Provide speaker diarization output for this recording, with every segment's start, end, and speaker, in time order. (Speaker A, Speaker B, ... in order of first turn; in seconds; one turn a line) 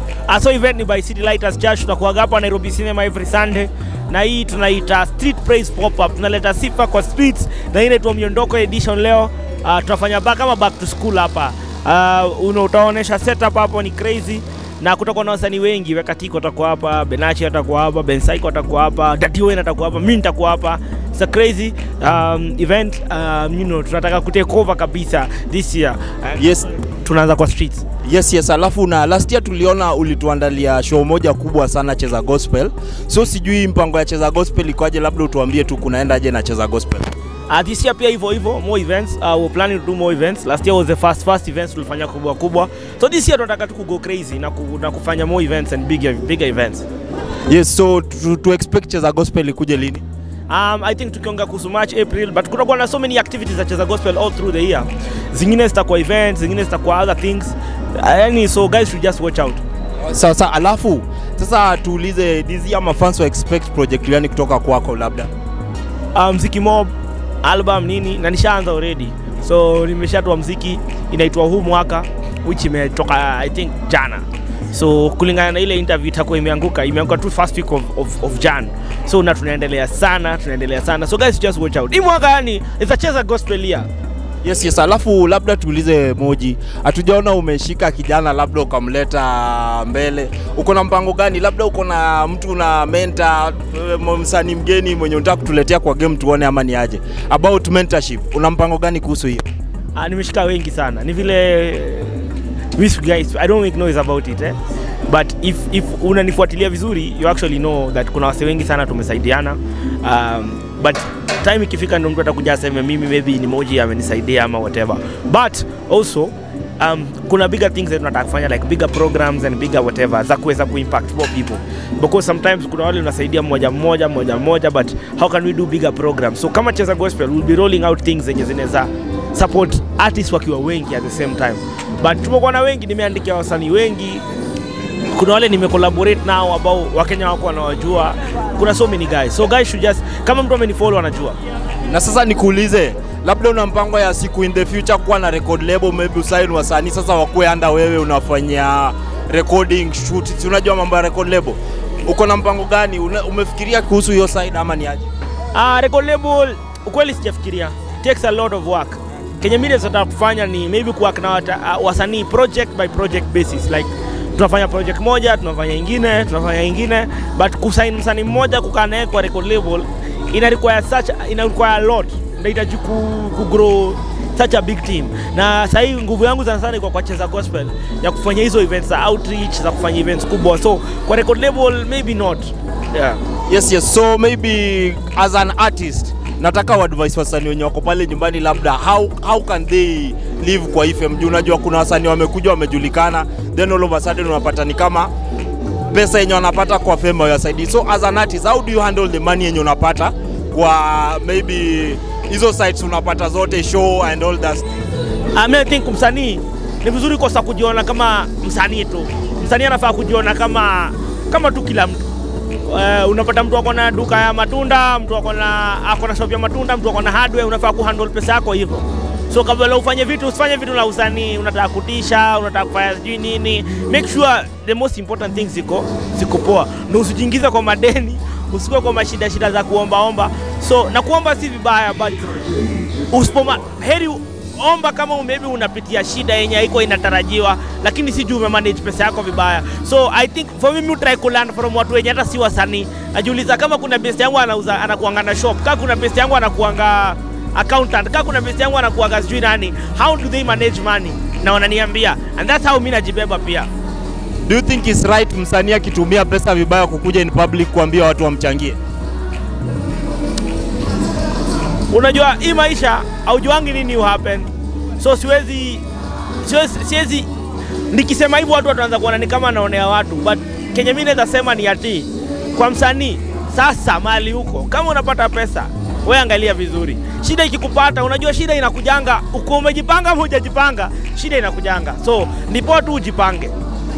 Speaker A: 0.3-26.4
Speaker B: 26.4-26.7
Speaker A: 27.0-27.8
Speaker B: 28.0-37.1
Speaker A: 37.5-46.9
Speaker B: 47.5-50.0
Speaker A: 50.5-59.6
Speaker B: 60.0-65.3
Speaker A: 66.1-66.9
Speaker A: 67.4-83.9
Speaker B: 84.4-99.4
Speaker A: 100.0-134.2
Speaker A: 135.1-141.4
Speaker B: 141.8-155.1
Speaker A: 155.5-183.2
Speaker B: 183.5-195.1
Speaker B: 195.9-204.8
Speaker A: 205.3-212.0
Speaker A: 212.7-232.4
Speaker A: 233.1-253.7
Speaker B: 254.4-258.8
Speaker A: 261.9-265.8
Speaker A: 266.4-267.3
Speaker A: 267.9-283.5